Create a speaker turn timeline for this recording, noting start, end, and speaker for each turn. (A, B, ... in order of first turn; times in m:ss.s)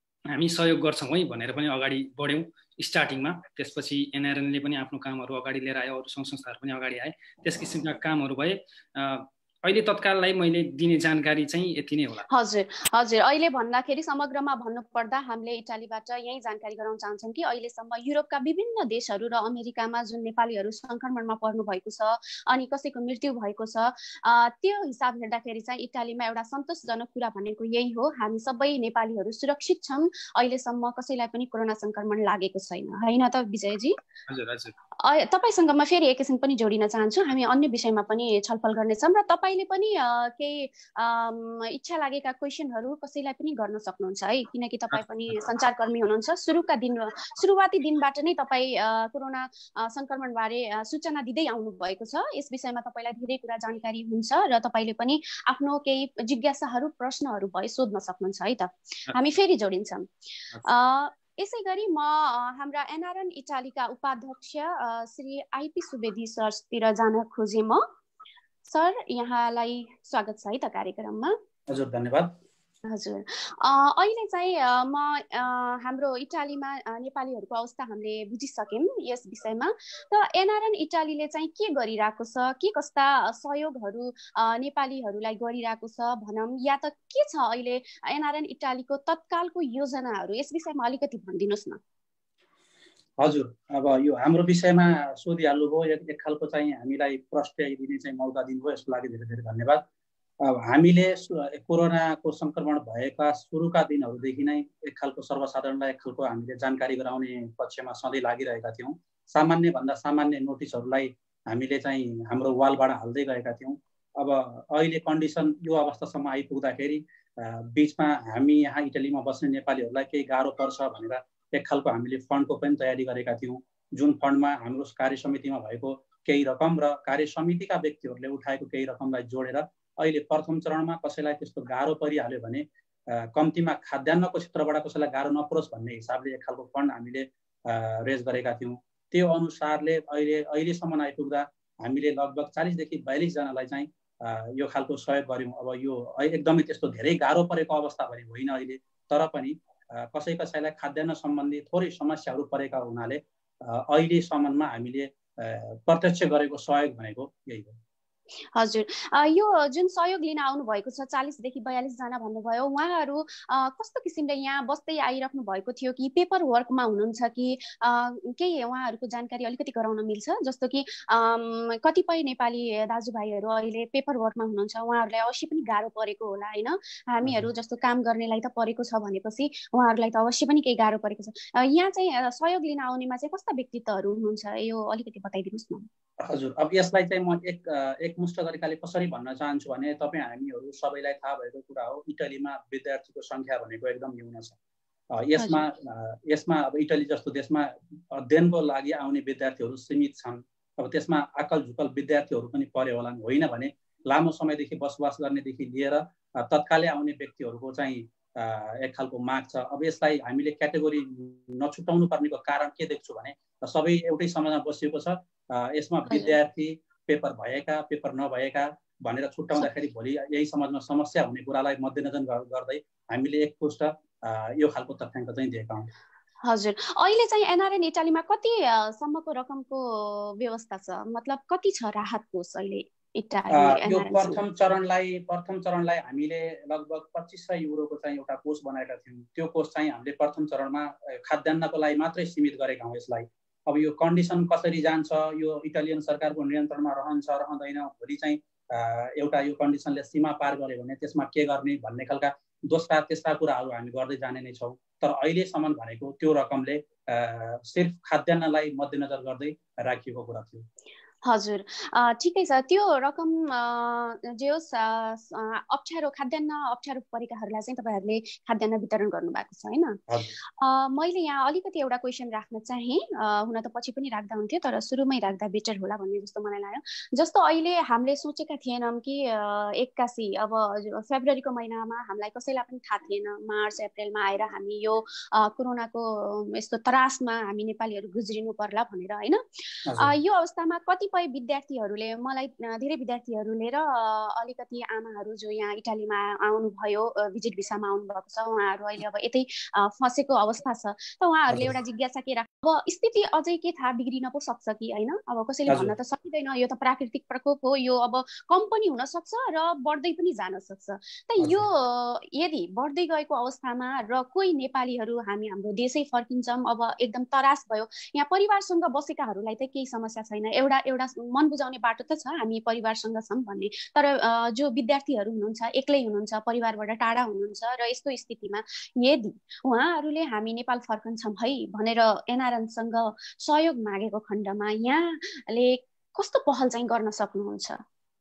0:00.3-0:12.2 A
0:12.3-0:34.0 B
0:34.3-0:34.7 A
0:35.0-1:00.1 B
1:00.6-1:07.8 B
1:08.7-1:11.4 B
1:11.7-1:12.3 C
1:12.8-1:31.8 B
1:33.2-1:39.8 C
1:40.4-2:37.8 C
2:38.6-3:05.9 B
3:06.2-3:14.6 C
3:15.2-3:45.9 C
3:15.4-3:15.7 B
3:36.1-3:36.4 B
3:46.4-3:54.4 B
3:53.5-4:20.6 C
4:21.2-4:30.0 B
4:30.6-5:37.8 B
5:05.7-5:05.9 C